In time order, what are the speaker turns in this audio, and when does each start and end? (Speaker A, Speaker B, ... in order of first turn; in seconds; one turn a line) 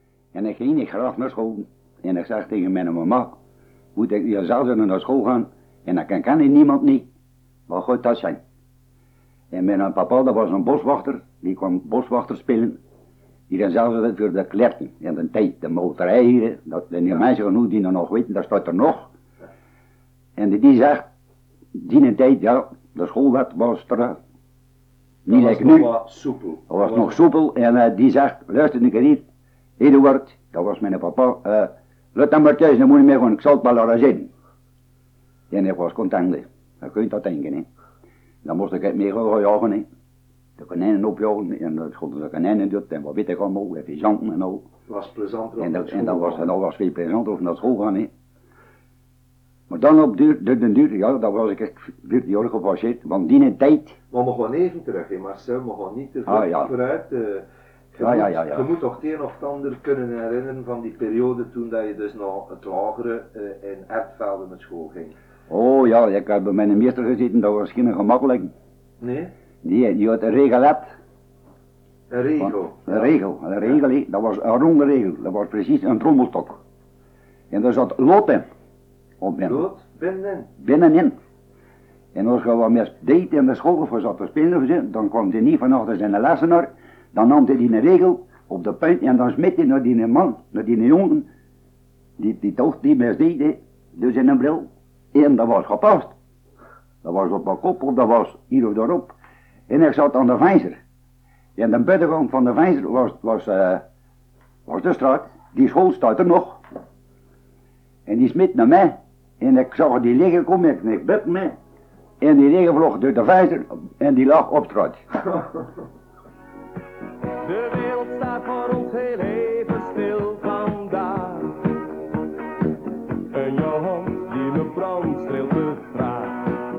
Speaker A: 0.3-3.4
Speaker A: 3.9-7.1
Speaker A: 7.7-8.4
Speaker A: 9.5-12.8
Speaker A: 13.5-19.1
Speaker A: 20.4-21.1
Speaker A: 21.7-24.2
Speaker A: 25.2-25.9
Speaker B: 25.3-27.2
Speaker A: 26.7-29.2
Speaker A: 29.8-34.3
Speaker A: 35.5-37.7
Speaker A: 38.4-39.9
Speaker A: 40.6-44.6
Speaker B: 44.9-46.5
Speaker A: 45.6-48.1
Speaker A: 49.7-54.0
Speaker B: 54.1-65.1
Speaker A: 56.3-56.7
Speaker A: 58.0-58.6
Speaker A: 65.5-68.5
Speaker B: 69.0-69.3
Speaker A: 69.6-70.9
Speaker B: 72.1-73.1
Speaker A: 72.4-76.6
Speaker A: 77.5-78.5
Speaker A: 79.2-79.6
Speaker B: 79.4-80.5
Speaker A: 80.6-81.2
Speaker A: 82.1-91.3
Speaker A: 92.2-96.1
Speaker A: 97.0-99.1
Speaker A: 99.7-100.8
Speaker A: 101.5-103.8
Speaker A: 104.7-106.6
Speaker A: 108.1-111.5
Speaker A: 112.2-115.0
Speaker C: 117.4-121.7
Speaker C: 123.3-126.6